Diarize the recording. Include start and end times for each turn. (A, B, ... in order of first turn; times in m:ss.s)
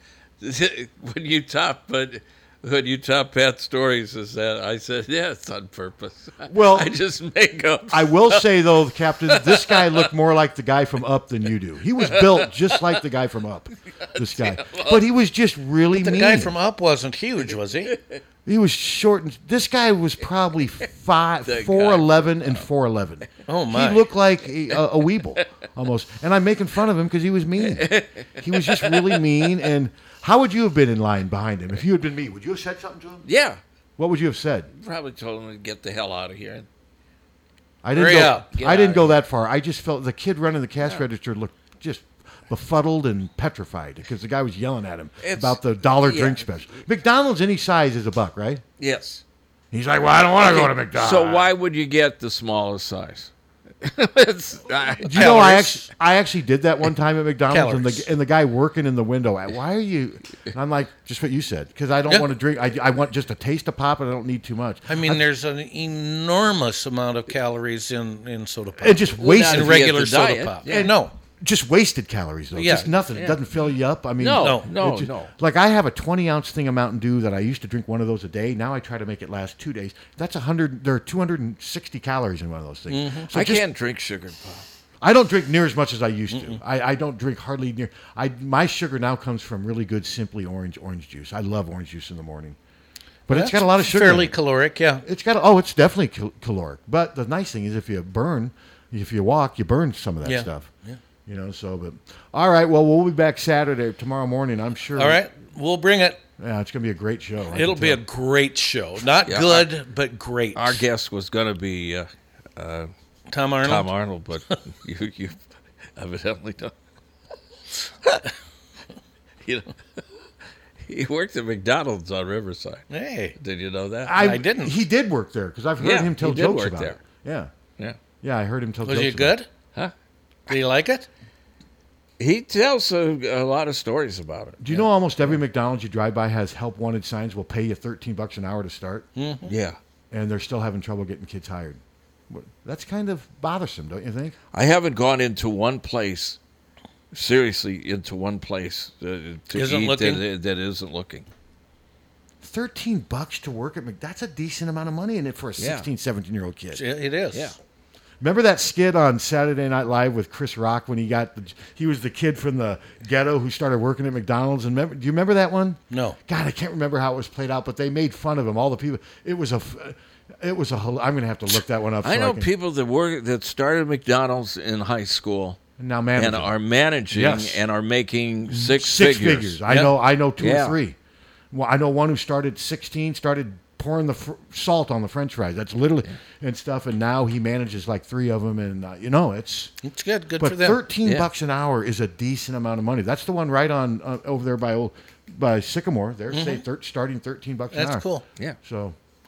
0:00.4-0:08.5 A
0:06.5-0:06.9 B
0:07.9-0:16.5 B
0:09.3-0:10.1 A
0:12.1-0:12.9 A
0:14.1-0:15.0 A
0:16.0-0:17.9 C
0:18.4-0:27.8 B
0:21.4-0:22.6 A
0:23.5-0:24.1 C
0:27.6-0:29.5 A
0:28.4-0:33.2 B
0:33.2-0:33.6 A
0:34.0-0:34.7 B
0:34.7-0:36.6 A
0:37.8-0:48.6 B
0:37.9-0:38.5 C
0:38.5-0:39.1 A
0:45.2-0:46.5 A
0:48.8-0:49.2 A
0:49.7-0:51.5 B
0:50.4-0:53.3 A
0:53.8-0:55.5 A
0:55.0-1:05.2 B
0:55.1-0:55.9 C
0:57.5-0:58.1 C
1:04.9-1:11.1 C
1:08.8-1:09.9 B
1:09.2-1:10.9 A
1:10.7-1:23.6 B
1:12.6-1:12.9 C
1:14.2-1:15.3 A
1:14.4-1:14.7 C
1:22.9-1:23.3 C
1:23.3-1:24.6 A
1:25.0-1:32.6 B
1:26.3-1:26.6 C
1:33.3-1:34.3 B
1:33.3-1:35.0 C
1:35.0-1:40.7 B
1:40.2-1:41.0 C
1:41.2-1:45.2 B
1:45.0-1:46.2 C
1:46.4-1:48.0 B
1:47.5-1:50.8 C
1:49.3-1:49.7 A
1:50.5-1:52.9 A
1:53.3-1:53.9 C
1:53.6-1:55.4 A
1:56.0-1:56.7 A
1:59.4-1:59.7 A
2:00.8-2:02.8 A
2:02.9-2:03.4 C
2:03.4-2:04.2 A
2:04.0-2:07.5 B
2:04.2-2:04.8 C
2:05.8-2:07.0 A
2:08.2-2:09.4 B
2:08.8-2:09.5 C
2:10.5-2:11.1 C
2:12.2-2:14.6 A
2:14.6-2:19.1 B
2:19.2-2:19.5 C
2:19.5-2:19.8 A
2:20.1-2:24.4 B
2:24.5-2:26.4 A
2:27.1-2:31.2 A
2:29.5-2:30.2 C
2:32.4-2:36.8 B
2:35.6-2:35.9 A
2:36.7-2:37.6 C
2:38.2-2:52.5 B
2:45.9-2:46.2 C
2:52.0-2:55.6 A
2:55.8-2:56.5 B
2:56.2-2:59.6 A
2:57.1-2:57.6 B
2:58.5-3:01.0 B
3:00.4-3:00.8 A
3:01.5-3:09.7 B
3:09.8-3:10.8 C
3:10.4-3:18.0 B
3:16.3-3:16.6 C
3:17.7-3:18.2 C
3:18.6-3:19.0 B